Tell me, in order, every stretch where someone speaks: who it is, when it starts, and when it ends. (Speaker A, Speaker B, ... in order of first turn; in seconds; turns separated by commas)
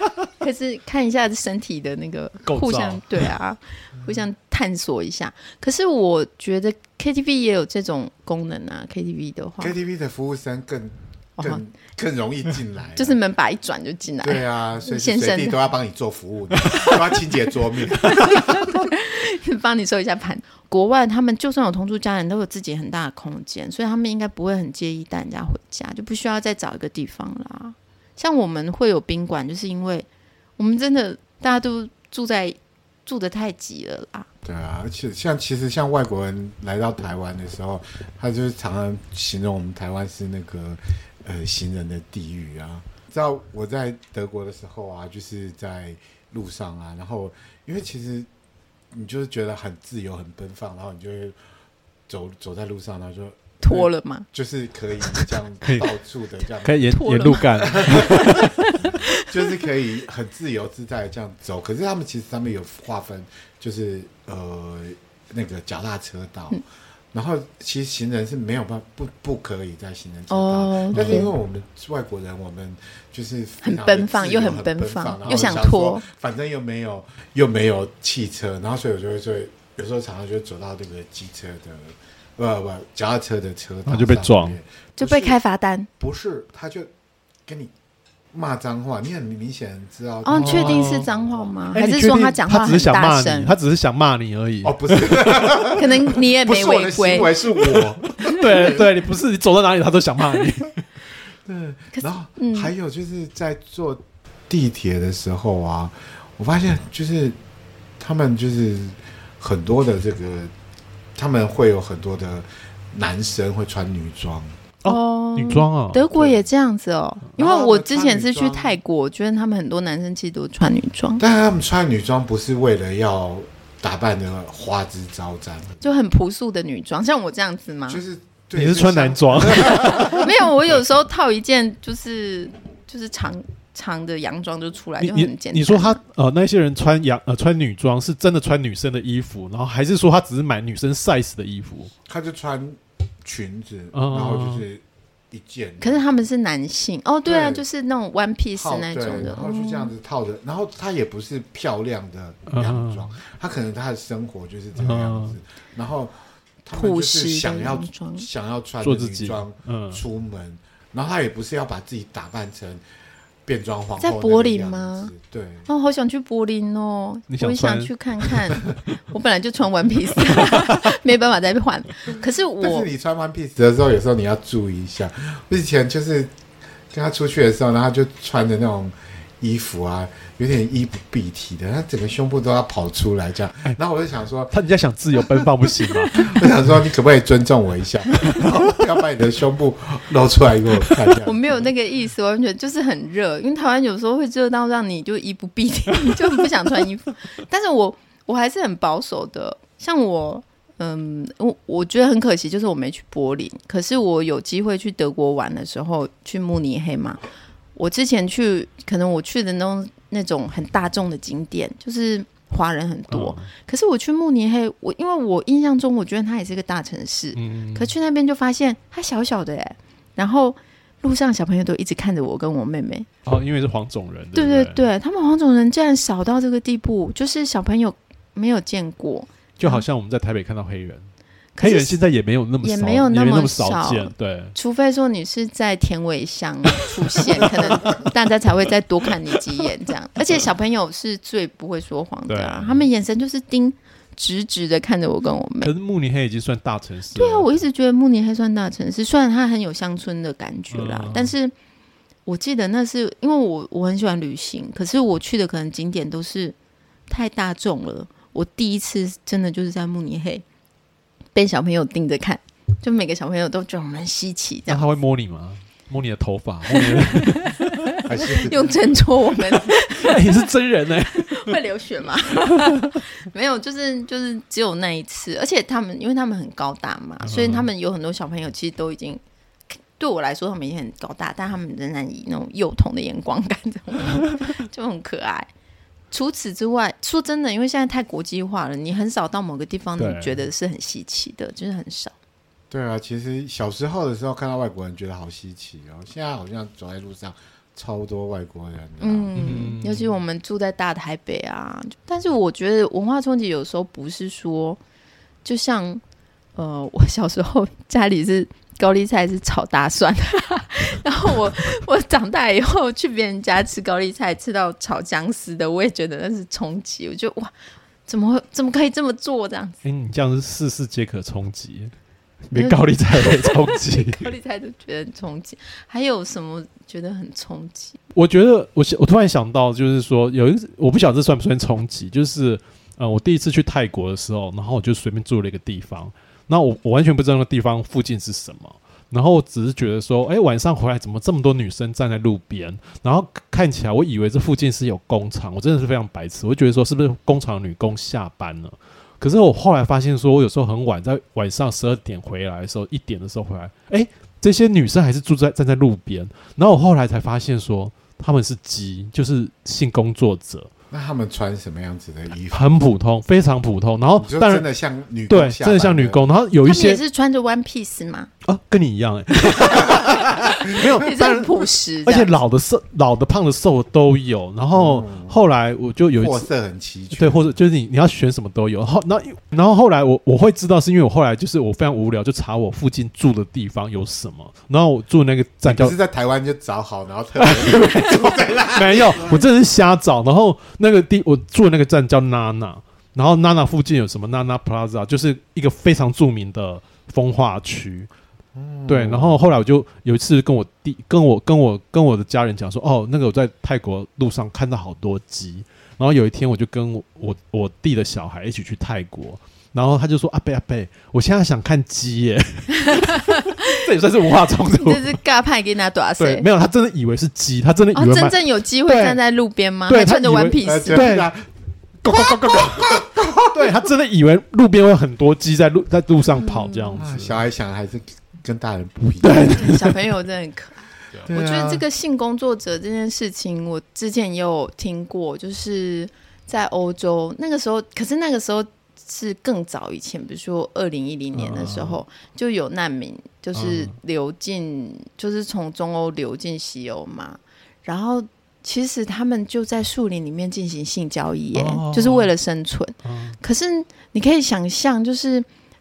Speaker A: 0.4-9.7, Speaker B: 2.4-3.3, Speaker C: 9.6-13.2, Speaker A: 12.9-15.6, Speaker C: 14.2-18.7, Speaker A: 18.0-34.3, Speaker C: 34.4-48.3, Speaker C: 48.9-51.4, Speaker C: 52.1-57.0, Speaker A: 53.6-54.3, Speaker B: 55.6-55.9, Speaker B: 56.6-58.7, Speaker A: 56.9-59.5, Speaker C: 57.6-66.6, Speaker C: 67.1-85.4, Speaker A: 70.3-71.3, Speaker B: 70.9-71.3, Speaker A: 73.6-76.0, Speaker B: 83.8-84.6, Speaker A: 85.0-85.9, Speaker C: 86.0-86.9, Speaker C: 87.5-87.7, Speaker C: 88.3-91.5, Speaker A: 90.2-93.5, Speaker B: 90.3-91.1, Speaker B: 91.7-95.6, Speaker C: 94.6-98.9, Speaker A: 95.7-97.3, Speaker B: 97.6-100.8, Speaker C: 101.4-107.4, Speaker A: 101.9-102.7, Speaker C: 108.0-110.5, Speaker C: 111.2-114.5, Speaker B: 114.8-116.0, Speaker A: 114.8-121.2, Speaker C: 116.1-116.5, Speaker C: 117.3-118.8, Speaker C: 121.2-125.8, Speaker A: 125.8-128.0, Speaker C: 127.9-130.3, Speaker B: 128.5-130.3, Speaker A: 129.6-136.0, Speaker B: 135.0-141.9, Speaker C: 142.1-146.2, Speaker B: 143.9-144.6, Speaker A: 145.8-149.9, Speaker C: 147.2-147.6, Speaker C: 148.6-162.8, Speaker B: 152.5-153.1, Speaker B: 154.8-155.3, Speaker A: 156.7-158.3, Speaker B: 158.8-160.0, Speaker C: 163.4-165.7, Speaker A: 164.0-165.1, Speaker A: 165.7-172.9, Speaker B: 167.3-168.3, Speaker B: 170.3-170.9, Speaker C: 172.6-176.3, Speaker C: 176.9-184.5, Speaker B: 184.5-186.4, Speaker C: 185.2-185.4, Speaker C: 186.1-191.6, Speaker A: 191.2-207.2, Speaker A: 207.7-223.1, Speaker B: 213.1-213.5, Speaker B: 217.3-217.9, Speaker B: 223.2-224.8, Speaker A: 224.3-229.8, Speaker B: 229.6-231.1, Speaker A: 231.6-231.9, Speaker B: 231.6-234.5, Speaker A: 232.6-245.7, Speaker B: 242.3-242.9, Speaker B: 245.6-247.6, Speaker A: 247.1-251.5, Speaker B: 250.7-251.3, Speaker A: 252.2-256.6, Speaker A: 257.1-260.4, Speaker A: 261.3-264.9, Speaker B: 264.7-268.3, Speaker A: 266.7-270.4, Speaker C: 268.1-268.8, Speaker B: 269.5-271.6, Speaker A: 271.1-279.2, Speaker B: 277.2-277.7, Speaker A: 280.0-285.5, Speaker A: 286.1-292.1, Speaker B: 290.0-290.4, Speaker C: 292.7-299.6, Speaker A: 299.0-304.8, Speaker B: 299.4-300.2, Speaker A: 305.4-306.0, Speaker A: 306.6-317.5, Speaker A: 318.1-319.8, Speaker B: 319.8-321.9, Speaker B: 322.5-324.3, Speaker A: 322.5-328.0, Speaker B: 328.1-360.7, Speaker C: 360.9-362.7, Speaker B: 362.5-364.6, Speaker C: 364.2-366.2, Speaker B: 365.3-367.0, Speaker A: 366.6-368.3, Speaker B: 368.4-376.5, Speaker A: 369.6-372.3, Speaker C: 374.7-375.4, Speaker C: 376.1-377.6, Speaker B: 377.1-385.9, Speaker C: 385.6-389.4, Speaker B: 387.4-398.1, Speaker C: 398.5-399.4, Speaker B: 398.9-415.2, Speaker A: 412.7-413.8, Speaker A: 414.8-416.4, Speaker B: 416.2-419.2, Speaker A: 417.9-421.1, Speaker B: 419.9-421.3, Speaker C: 420.6-421.4, Speaker B: 422.0-427.4, Speaker C: 422.2-423.8, Speaker A: 426.3-427.0, Speaker C: 427.0-429.7, Speaker B: 429.2-430.0, Speaker A: 429.4-455.5, Speaker C: 431.2-431.8, Speaker B: 441.3-442.0, Speaker B: 443.5-443.9, Speaker B: 451.5-452.3, Speaker B: 453.0-453.4